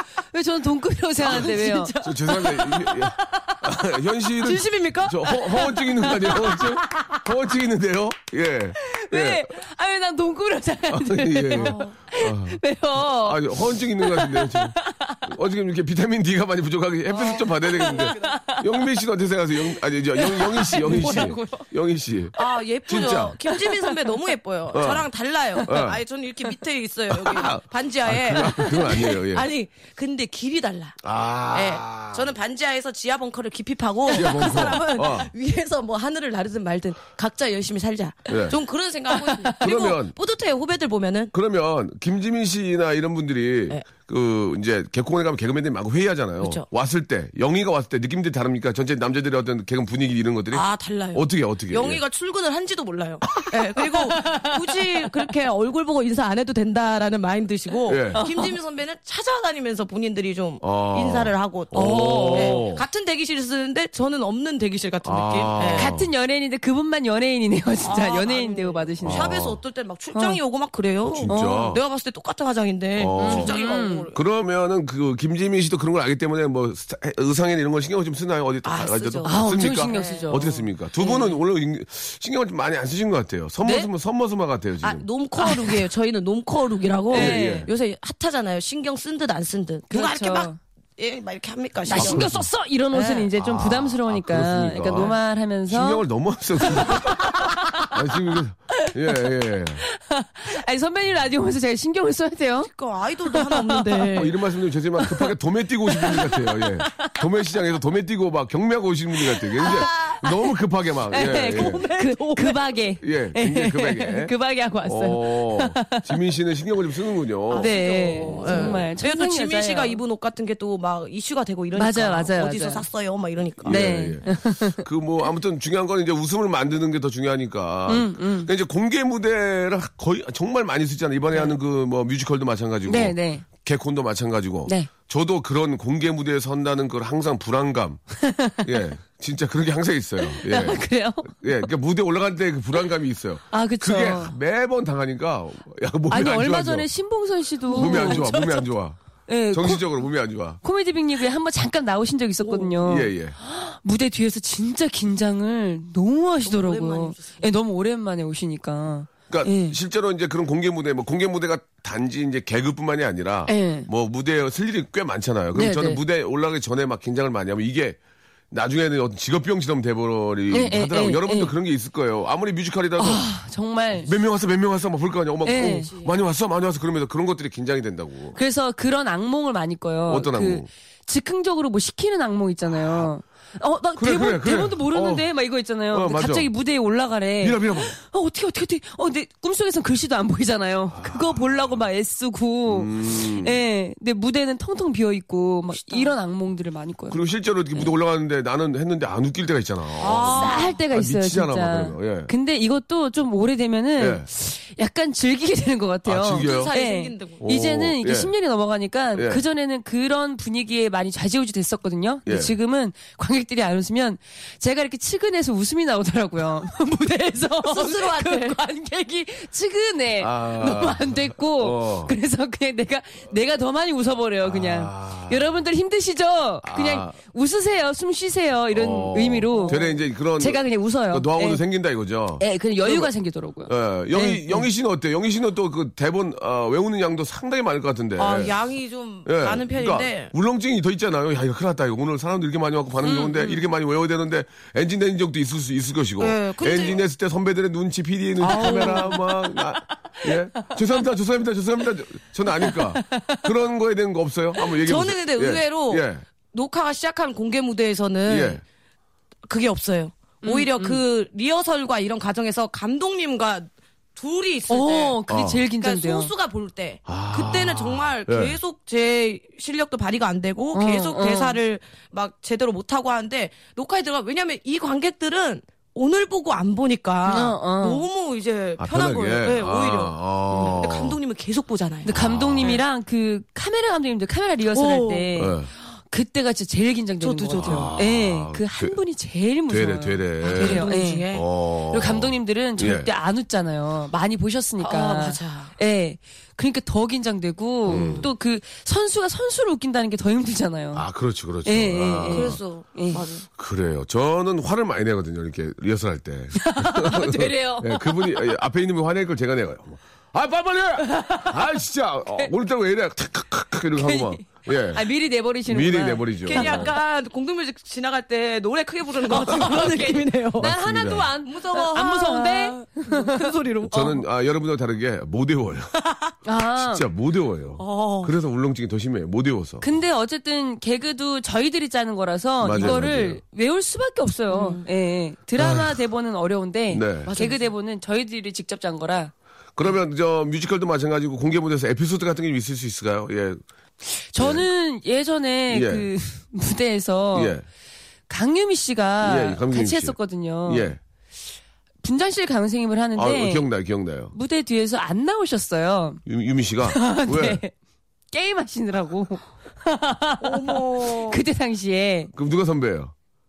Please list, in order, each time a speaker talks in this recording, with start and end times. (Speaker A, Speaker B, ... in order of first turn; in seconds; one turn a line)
Speaker A: 0.3-1.9
Speaker B: 1.2-3.6
Speaker C: 2.0-9.5
Speaker B: 4.4-7.2
Speaker A: 8.8-15.3
Speaker C: 10.9-22.4
Speaker B: 11.6-11.9
Speaker B: 17.2-18.4
Speaker A: 17.6-18.6
Speaker A: 20.2-21.4
Speaker B: 20.4-21.6
Speaker B: 22.4-31.0
Speaker C: 22.9-23.4
Speaker A: 23.5-24.1
Speaker C: 24.7-25.1
Speaker C: 25.6-26.0
Speaker C: 27.1-29.5
Speaker C: 31.0-32.3
Speaker B: 31.5-41.3
Speaker C: 34.1-35.3
Speaker C: 38.3-38.6
Speaker A: 39.2-39.7
Speaker C: 39.6-40.1
Speaker C: 41.3-52.0
Speaker B: 46.4-46.6
Speaker B: 50.5-65.9
Speaker A: 54.2-54.5
Speaker C: 57.9-58.2
Speaker A: 58.2-58.5
Speaker C: 60.6-62.9
Speaker A: 61.7-62.6
Speaker C: 65.0-66.1
Speaker A: 65.7-69.4
Speaker B: 67.8-74.2
Speaker C: 69.0-69.6
Speaker A: 70.1-70.4
Speaker C: 71.1-71.8
Speaker A: 71.3-71.8
Speaker C: 73.0-73.6
Speaker A: 73.2-74.1
Speaker C: 74.1-85.1
Speaker B: 78.6-80.5
Speaker A: 79.2-81.2
Speaker A: 83.6-83.9
Speaker B: 84.8-92.3
Speaker A: 85.4-85.8
Speaker A: 87.1-87.7
Speaker C: 87.1-87.7
Speaker A: 89.9-90.6
Speaker A: 91.9-96.0
Speaker C: 91.9-92.5
Speaker B: 92.9-93.3
Speaker C: 93.4-95.2
Speaker C: 95.7-99.8
Speaker A: 96.6-97.9
Speaker A: 98.8-99.2
Speaker A: 99.8-102.7
Speaker B: 102.6-104.4
Speaker A: 103.3-104.1
Speaker C: 104.1-111.8
Speaker A: 106.0-106.3
Speaker B: 109.6-110.4
Speaker A: 109.6-110.2
Speaker A: 111.1-116.1
Speaker B: 111.1-112.6
Speaker C: 113.0-114.3
Speaker C: 114.8-118.8
Speaker B: 117.5-123.8
Speaker A: 117.6-120.0
Speaker A: 121.8-122.8
Speaker C: 123.6-138.0
Speaker A: 123.7-124.8
Speaker A: 127.9-128.5
Speaker A: 132.9-133.5
Speaker A: 138.2-138.8
Speaker C: 138.6-146.9
Speaker A: 140.2-141.4
Speaker A: 143.5-144.3
Speaker A: 146.1-148.7
Speaker B: 147.7-148.4
Speaker C: 147.7-149.0
Speaker A: 149.3-150.0
Speaker C: 149.5-150.6
Speaker A: 150.6-159.8
Speaker B: 152.5-152.7
Speaker C: 152.8-153.4
Speaker B: 156.4-157.4
Speaker C: 159.3-168.0
Speaker A: 163.5-163.9
Speaker A: 165.6-166.0
Speaker C: 168.5-173.2
Speaker A: 170.5-171.5
Speaker A: 173.0-174.1
Speaker C: 173.9-178.4
Speaker A: 175.4-175.9
Speaker B: 175.6-176.1
Speaker A: 178.3-197.2
Speaker C: 180.1-180.7
Speaker C: 182.7-183.1
Speaker C: 184.0-185.3
Speaker C: 185.9-186.5
Speaker C: 187.4-187.9
Speaker C: 190.9-191.8
Speaker C: 192.7-193.6
Speaker B: 195.8-196.1
Speaker C: 197.1-202.3
Speaker B: 200.0-200.8
Speaker A: 200.3-229.8
Speaker C: 204.0-204.3
Speaker C: 206.1-206.7
Speaker B: 206.3-207.4
Speaker C: 207.4-208.3
Speaker C: 209.2-209.4
Speaker C: 212.3-212.5
Speaker B: 217.6-218.6
Speaker C: 220.2-222.1
Speaker C: 224.4-225.5
Speaker C: 226.6-227.2
Speaker C: 228.7-233.1
Speaker B: 229.5-229.9
Speaker A: 230.4-231.6
Speaker A: 232.4-234.7
Speaker C: 233.7-238.6
Speaker B: 238.2-240.3
Speaker C: 239.2-256.2
Speaker A: 243.0-243.6
Speaker B: 246.2-247.0
Speaker B: 248.4-249.2
Speaker A: 248.5-249.3
Speaker A: 250.2-250.8
Speaker A: 252.5-253.5
Speaker B: 254.7-258.6
Speaker C: 258.3-258.6
Speaker B: 259.5-265.2
Speaker A: 260.4-261.0
Speaker A: 264.7-266.3
Speaker C: 265.3-265.6
Speaker B: 265.8-282.8
Speaker C: 267.1-268.6
Speaker A: 270.7-271.6
Speaker A: 277.3-278.1
Speaker C: 278.8-281.2
Speaker A: 280.5-280.8
Speaker A: 282.0-291.2
Speaker C: 282.1-282.8
Speaker B: 284.7-285.3
Speaker C: 285.4-285.7
Speaker B: 287.2-287.9
Speaker C: 287.6-289.0
Speaker C: 289.7-293.1
Speaker B: 290.4-291.4
Speaker A: 291.9-301.1
Speaker B: 294.8-295.7
Speaker C: 297.9-298.3
Speaker B: 297.9-298.3
Speaker C: 300.9-302.6
Speaker A: 301.6-303.2
Speaker B: 302.3-303.5
Speaker C: 303.6-315.1
Speaker A: 306.6-308.2
Speaker A: 311.0-311.6
Speaker A: 313.9-316.9
Speaker C: 315.7-316.9
Speaker B: 316.4-320.7
Speaker A: 319.3-323.5
Speaker C: 320.6-321.3
Speaker B: 321.4-324.2
Speaker C: 323.9-325.9
Speaker B: 326.0-326.3
Speaker A: 326.4-327.1
Speaker C: 326.8-329.8
Speaker B: 327.8-328.3
Speaker A: 329.8-339.3
Speaker C: 332.6-333.4
Speaker B: 334.5-334.9
Speaker C: 335.6-336.0
Speaker C: 336.9-337.3
Speaker B: 337.3-337.7
Speaker C: 339.8-343.6
Speaker A: 344.3-347.6
Speaker C: 344.4-344.7
Speaker C: 345.7-346.1
Speaker C: 347.3-347.6
Speaker A: 348.3-350.9
Speaker C: 349.2-351.0
Speaker A: 352.0-353.7
Speaker C: 353.1-354.3
Speaker A: 354.3-356.2
Speaker C: 356.3-357.6
Speaker A: 356.8-357.7
Speaker A: 358.3-362.3
Speaker B: 360.4-361.4
Speaker C: 362.3-363.1